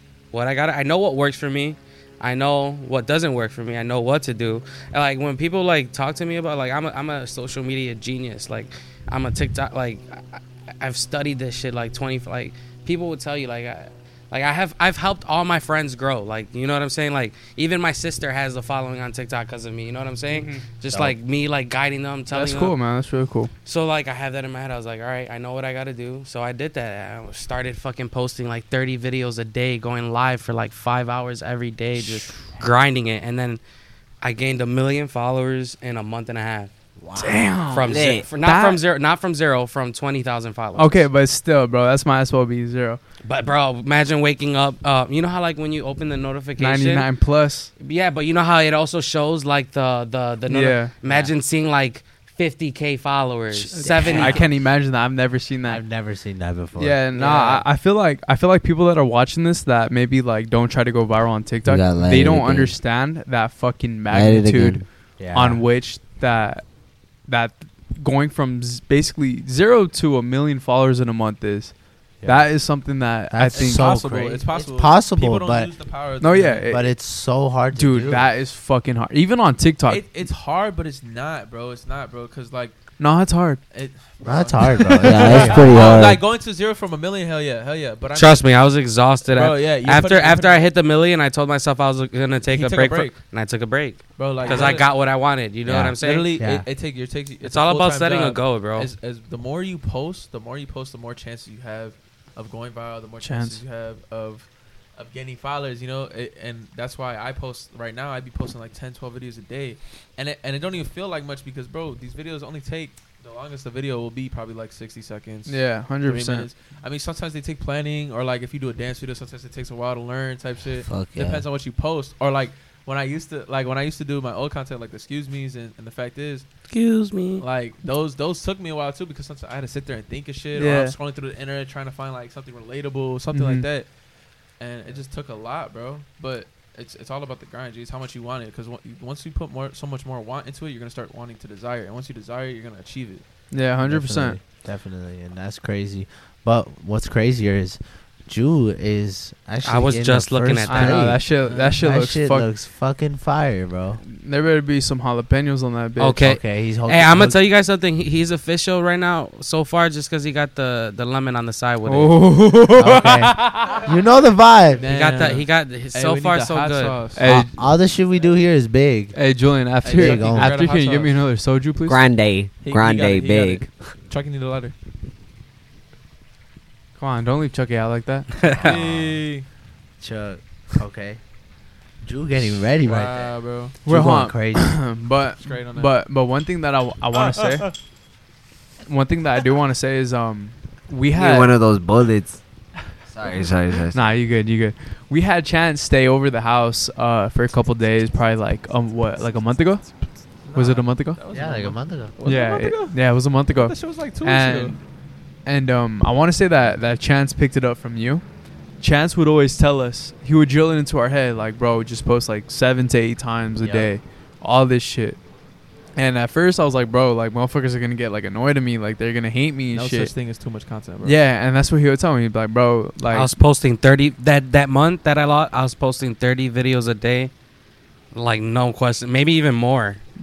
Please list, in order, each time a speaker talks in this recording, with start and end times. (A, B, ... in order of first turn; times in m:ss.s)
0:00.3-0:22.7 A
0:20.3-0:20.6 B
0:20.9-0:21.2 C
0:22.3-0:23.5 B
0:23.6-0:33.6 A
0:32.0-0:32.4 B
0:34.2-0:36.7 A
0:37.0-0:38.3 D
0:37.2-0:38.8 B
0:37.7-0:41.0 A
0:40.8-0:43.0 B
0:43.2-0:47.1 A
0:46.6-0:47.7 B
0:47.8-0:54.4 A
0:50.5-0:50.9 B
0:51.0-0:51.3 C
0:53.5-0:55.8 B
0:54.0-0:54.4 C
0:55.6-0:57.0 C
0:56.8-1:06.7 B
0:57.1-0:57.6 E
1:01.6-1:02.8 D
1:04.1-1:04.8 D
1:05.2-1:05.6 C
1:07.2-1:14.1 B
1:12.2-1:12.6 C
1:13.3-1:15.7 C
1:13.5-1:16.7 E
1:16.2-1:16.9 B
1:16.7-1:18.3 C
1:17.7-1:20.1 B
1:19.9-1:22.8 E
1:23.0-1:23.6 B
1:23.7-1:28.5 E
1:24.2-1:25.9 C
1:25.0-1:26.2 D
1:28.1-1:36.3 A
1:29.3-1:30.6 E
1:32.5-1:33.2 E
1:34.2-1:34.9 E
1:35.6-1:36.6 C
1:36.0-2:06.5 E
1:37.4-1:38.9 A
1:43.2-1:43.6 B
1:55.5-1:56.5 B
2:00.9-2:01.4 D
2:06.7-2:07.4 A
2:07.4-2:13.9 E
2:10.6-2:10.9 B
2:13.3-2:13.7 B
2:14.6-2:23.2 E
2:23.5-2:24.4 B
2:23.8-2:34.0 C
2:29.6-2:31.1 A
2:30.6-2:32.5 B
2:31.4-2:31.8 E
2:34.1-2:36.2 B
2:36.0-2:42.5 A
2:36.2-2:37.4 C
2:41.9-2:43.8 B
2:42.7-2:44.9 C
2:44.8-2:47.2 E
2:44.9-2:47.0 A
2:47.2-2:47.6 B
2:47.2-2:49.2 C
2:49.1-2:52.0 B
2:49.8-2:51.2 E
2:49.9-2:50.6 C
2:51.8-2:53.9 D
2:52.6-2:54.7 E
2:57.0-2:58.7 B
2:58.6-2:59.2 C
2:58.6-2:59.4 E
3:00.0-3:01.2 C
3:02.0-3:03.3 C
3:02.8-3:03.8 E
3:03.8-3:07.7 B
3:03.9-3:04.8 C
3:05.4-3:05.9 E
3:07.1-3:07.7 E
3:08.9-3:11.6 B
3:11.1-3:12.4 D
3:13.1-3:14.1 D
3:13.9-3:20.0 B
3:19.9-3:24.8 E
3:20.6-3:21.2 B
3:21.3-3:22.1 C
3:22.2-3:24.8 B
3:25.4-3:28.2 B
3:28.8-3:35.2 B
3:33.6-3:33.9 E
3:36.0-3:40.1 B
3:39.7-3:41.2 E
3:41.0-3:43.3 B
3:43.1-3:47.3 A
3:48.1-3:50.0 A